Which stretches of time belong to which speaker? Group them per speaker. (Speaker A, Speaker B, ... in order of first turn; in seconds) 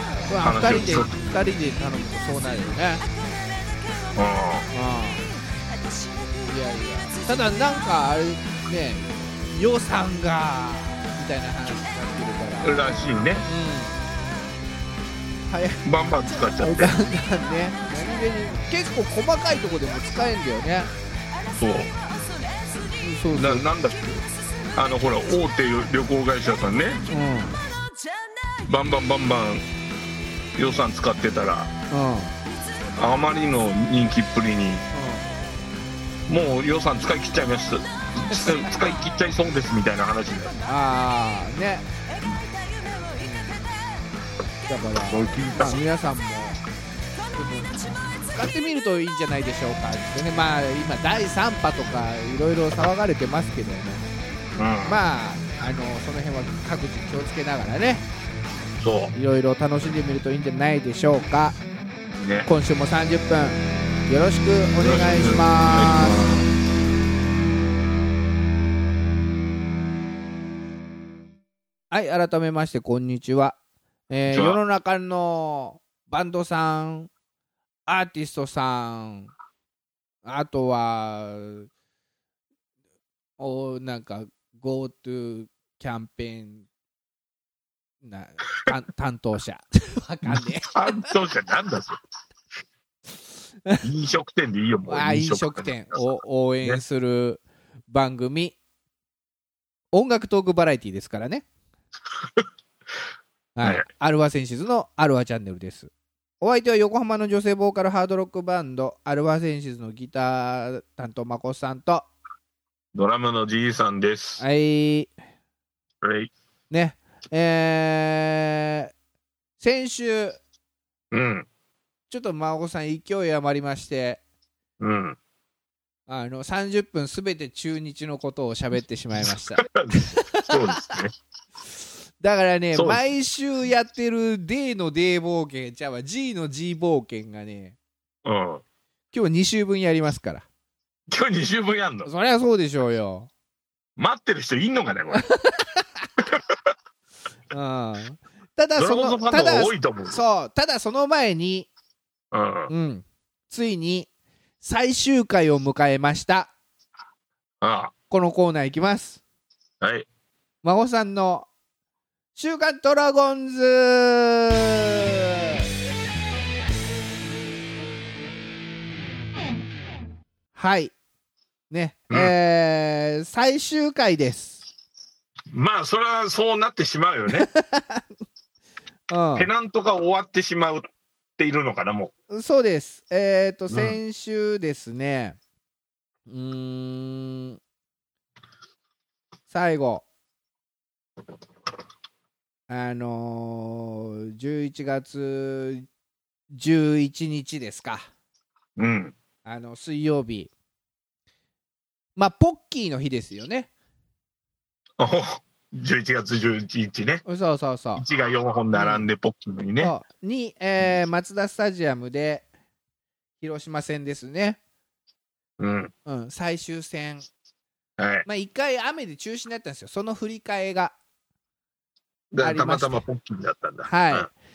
Speaker A: 0.3-3.0, 4.7-5.3, 6.5-14.0, 15.5-15.8, 16.6-20.9, 23.0-23.6, 27.1-27.6, 31.9-32.3, 34.9-35.3, 38.3-38.7, 40.6-41.9, 43.2-43.6, 44.7-46.6, 47.3-54.0, 54.8-58.0, 59.1-61.6, 62.5-66.2, 71.9-73.6, 74.1-77.1, 77.9-79.3, 80.2-81.7, 83.4-86.7, 88.0-91.1, 94.9-98.5, 99.9-101.4, 103.5-112.1, 114.4-115.1, 116.7-118.9, 119.6-120.4, 122.1-124.2, 126.1-131.0, 132.2-137.8, 139.1-140.4, 142.0-143.3, 145.1-146.1, 147.5-151.7, 152.7-154.1, 154.6-156.5, 158.1-159.2, 160.6-161.5, 162.3-165.6, 170.5-170.9, 171.7-174.6, 177.3-178.0, 179.1-179.5, 182.3-185.4, 186.3-187.6, 189.5-190.1, 192.7-195.8, 196.5-198.1, 199.4-200.5, 202.2-203.7, 207.2-208.0, 208.7-209.1, 209.8-212.4, 213.4-214.6, 216.1-217.2, 218.2-220.9, 222.4-223.0, 223.8-224.3
Speaker B: 0.4-1.1, 4.1-4.7, 12.6-13.4, 15.8-17.0, 21.5-21.9, 23.3-27.0, 28.6-29.6, 30.6-31.7, 33.0-34.8, 36.3-40.5, 45.1-45.7, 54.6-55.0, 58.8-59.1, 62.2-62.5, 64.8-66.5, 74.3-74.6, 90.2-92.0, 93.8-96.0, 112.9-114.4, 116.0-116.3, 121.1-121.5, 124.8-125.2, 129.3-131.1, 132.7-133.0, 138.2-138.6, 141.1-142.1, 144.0-145.3, 146.2-146.6, 148.8-150.2, 152.3-152.7, 157.6-157.9, 159.8-160.1, 175.5-177.5, 179.3-180.9, 181.4-182.1, 183.7-184.0, 198.8-199.1, 205.0-207.2, 207.9-209.9, 215.6-215.9, 218.0-218.2, 222.3-224.3